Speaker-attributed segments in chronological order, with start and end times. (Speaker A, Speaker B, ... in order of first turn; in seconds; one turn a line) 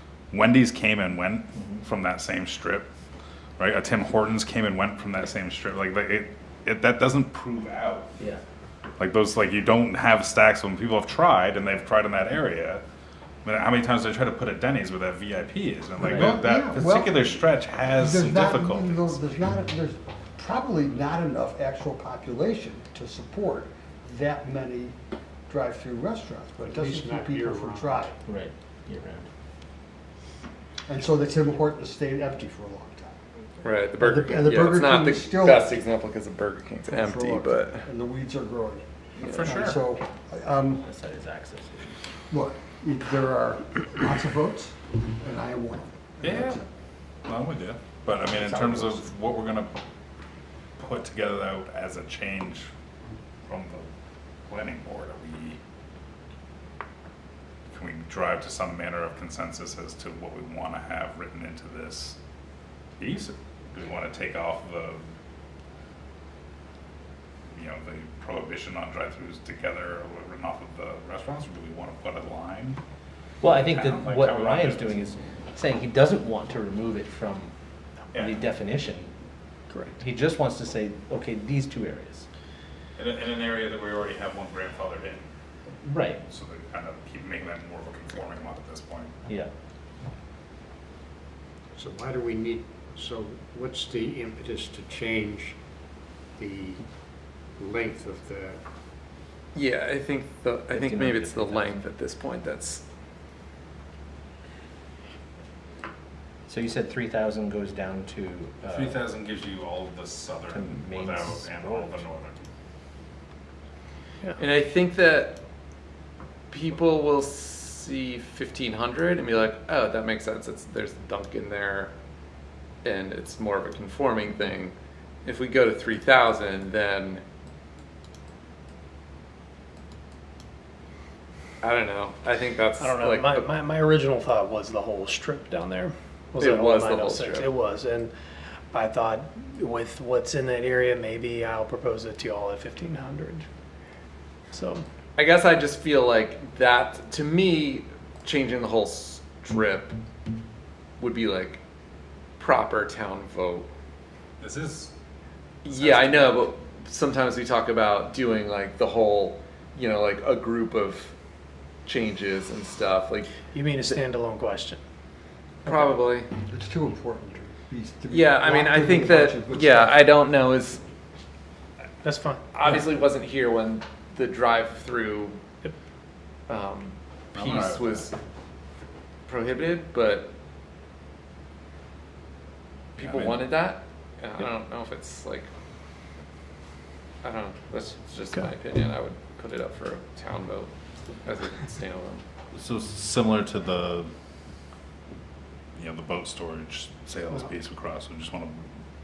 Speaker A: 0.3-2.9
Speaker A: 3.6-8.1
Speaker A: 9.0-12.8
Speaker A: 13.4-19.2
Speaker B: 16.0-16.4
Speaker C: 16.1-17.3
Speaker C: 17.9-28.1
Speaker D: 26.6-28.2
Speaker B: 28.3-29.3
Speaker C: 30.9-33.2
Speaker E: 33.6-37.9
Speaker C: 34.0-35.9
Speaker C: 36.9-40.9
Speaker A: 39.2-39.8
Speaker B: 40.8-42.0
Speaker C: 42.3-46.6
Speaker A: 46.2-46.6
Speaker A: 47.3-49.8
Speaker B: 48.4-49.0
Speaker A: 50.8-52.7
Speaker A: 53.5-53.9
Speaker A: 54.5-55.6
Speaker A: 57.7-62.2
Speaker A: 63.0-65.0
Speaker A: 67.5-72.8
Speaker B: 73.4-77.5
Speaker A: 73.5-75.0
Speaker A: 78.1-78.4
Speaker B: 78.2-79.1
Speaker F: 79.7-80.0
Speaker B: 80.0-82.3
Speaker A: 83.0-85.3
Speaker B: 85.8-86.2
Speaker A: 86.3-89.1
Speaker D: 91.8-95.6
Speaker D: 96.4-96.8
Speaker D: 97.6-98.6
Speaker E: 99.5-102.8
Speaker B: 100.7-101.8
Speaker B: 106.5-109.0
Speaker A: 108.7-112.5
Speaker B: 110.5-112.0
Speaker E: 114.4-115.4
Speaker E: 116.5-121.9
Speaker E: 122.8-127.2
Speaker E: 131.6-133.5
Speaker F: 132.8-138.1
Speaker E: 136.4-137.6
Speaker F: 138.7-143.5
Speaker F: 144.5-144.8
Speaker E: 145.2-150.0
Speaker E: 151.0-151.6
Speaker E: 152.4-153.7
Speaker A: 154.4-154.9
Speaker E: 155.7-161.1
Speaker A: 155.7-156.4
Speaker E: 161.9-164.0
Speaker F: 163.5-164.8
Speaker E: 165.6-166.3
Speaker F: 165.7-165.9
Speaker C: 166.3-170.1
Speaker E: 168.1-170.8
Speaker F: 172.0-172.4
Speaker E: 172.5-175.4
Speaker E: 176.5-178.2
Speaker A: 177.3-178.0
Speaker E: 179.3-180.3
Speaker E: 183.0-185.5
Speaker A: 183.0-183.5
Speaker E: 187.2-190.7
Speaker E: 191.2-192.2
Speaker A: 192.5-194.1
Speaker A: 195.8-198.6